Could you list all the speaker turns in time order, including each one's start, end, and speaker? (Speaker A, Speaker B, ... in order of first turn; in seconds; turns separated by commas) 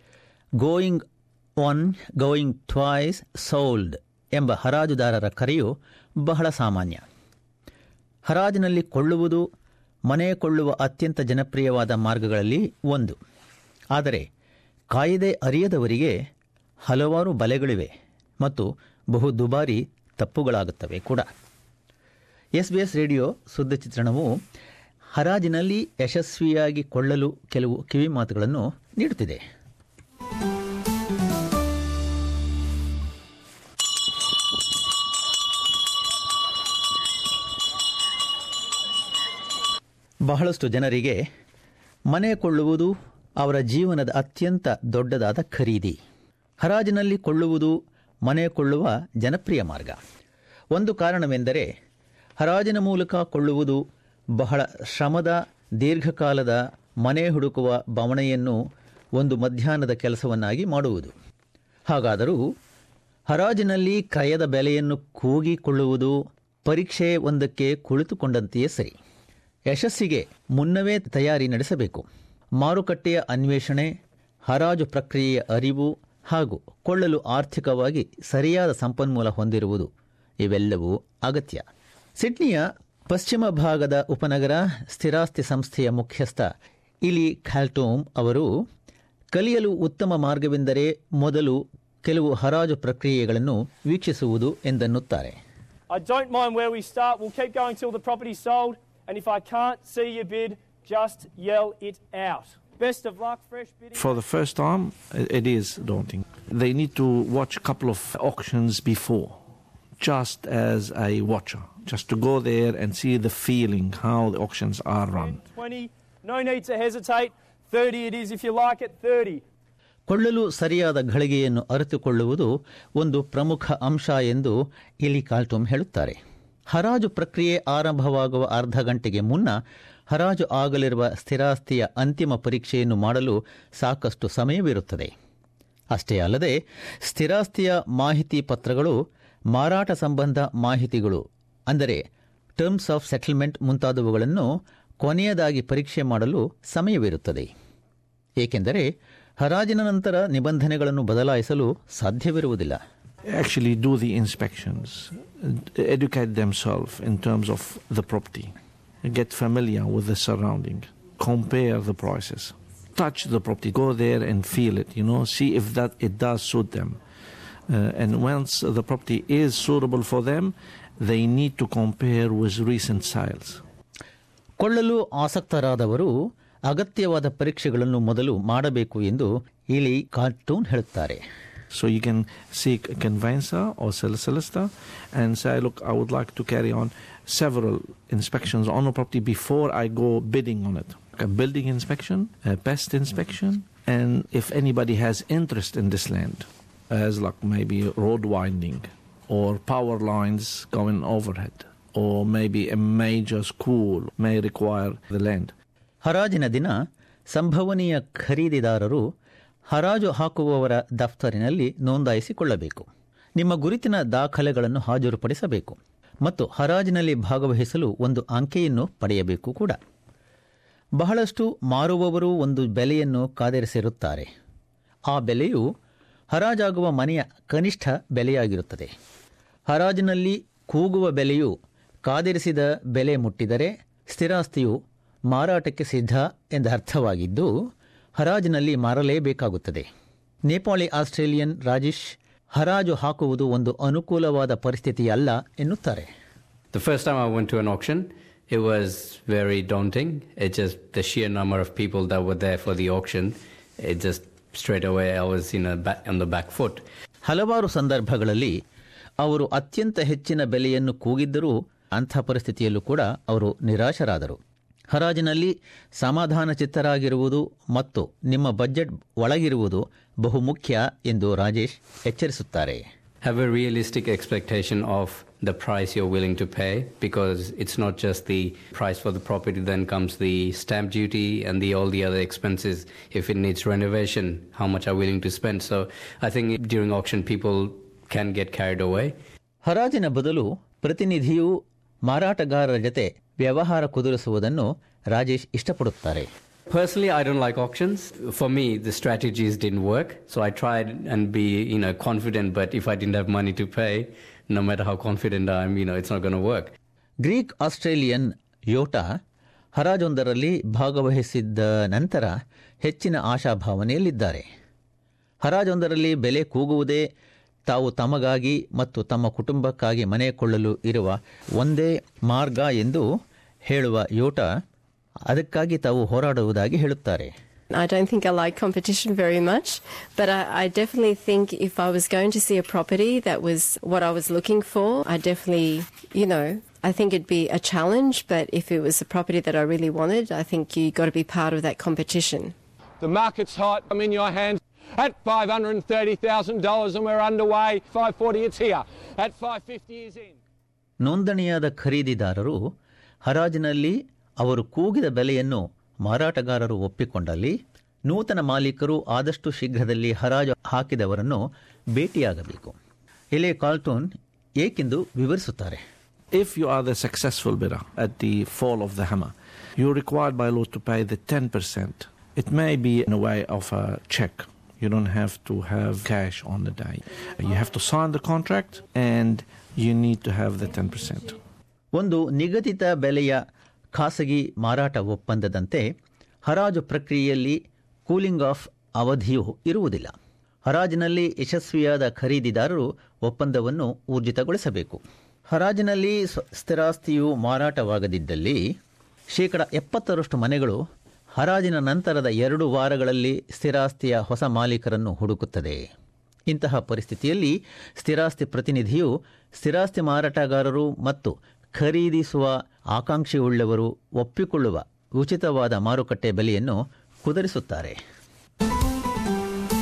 Speaker A: 0.6-1.0, Speaker A: 1.6-7.0, Speaker A: 8.3-9.4, Speaker A: 10.1-13.2, Speaker A: 13.9-14.2, Speaker A: 14.9-16.1, Speaker A: 16.9-21.3, Speaker A: 22.6-24.4, Speaker A: 25.1-29.4, Speaker A: 40.3-41.2, Speaker A: 42.1-46.0, Speaker A: 46.6-47.7, Speaker A: 48.2-50.0, Speaker A: 50.7-51.7, Speaker A: 52.4-53.8, Speaker A: 54.4-58.5, Speaker A: 59.2-61.1, Speaker A: 61.9-62.4, Speaker A: 63.3-66.2, Speaker A: 66.7-68.9, Speaker A: 69.7-72.0, Speaker A: 72.6-73.9, Speaker A: 74.5-79.9, Speaker A: 80.4-81.6, Speaker A: 82.2-86.5, Speaker A: 87.1-88.5, Speaker A: 89.3-95.4, Speaker B: 95.9-104.2, Speaker C: 104.0-109.4, Speaker C: 110.0-115.4, Speaker B: 115.1-119.4, Speaker A: 120.1-126.2, Speaker A: 126.7-129.5, Speaker A: 130.1-135.1, Speaker A: 135.9-136.6, Speaker A: 137.1-138.9, Speaker A: 139.5-142.0, Speaker A: 142.6-144.5, Speaker A: 145.0-147.5, Speaker A: 148.4-148.8, Speaker A: 149.4-152.8, Speaker C: 153.3-167.0, Speaker C: 167.7-173.6, Speaker A: 174.6-176.1, Speaker A: 176.7-181.2, Speaker C: 181.7-205.5, Speaker A: 206.0-206.8, Speaker A: 207.3-209.0, Speaker A: 209.7-212.9, Speaker A: 213.4-219.8, Speaker A: 221.0-224.3, Speaker A: 225.1-225.6, Speaker A: 226.3-228.9, Speaker A: 229.7-231.5, Speaker A: 232.1-234.8, Speaker A: 235.3-237.5, Speaker A: 238.2-239.9, Speaker A: 240.5-242.0, Speaker A: 242.5-246.1, Speaker D: 246.7-256.8, Speaker A: 257.2-258.5, Speaker A: 259.2-264.4, Speaker A: 264.9-272.8, Speaker D: 273.2-289.1, Speaker A: 289.6-291.5, Speaker A: 292.1-296.3, Speaker D: 296.7-306.7, Speaker A: 307.2-309.1, Speaker A: 309.8-312.3, Speaker A: 312.8-314.4, Speaker A: 315.4-317.0, Speaker A: 317.7-323.0, Speaker A: 323.7-324.5, Speaker A: 325.3-327.3, Speaker E: 327.7-342.5, Speaker F: 343.0-350.4, Speaker A: 351.0-352.6, Speaker A: 353.2-357.6, Speaker A: 358.1-361.4, Speaker A: 361.9-362.8, Speaker A: 363.3-364.1, Speaker A: 364.6-365.8, Speaker C: 366.3-381.4, Speaker A: 381.9-383.4, Speaker A: 383.9-385.9, Speaker A: 386.4-390.1, Speaker A: 390.7-398.6, Speaker A: 399.3-400.8, Speaker A: 401.4-405.8, Speaker A: 406.5-417.9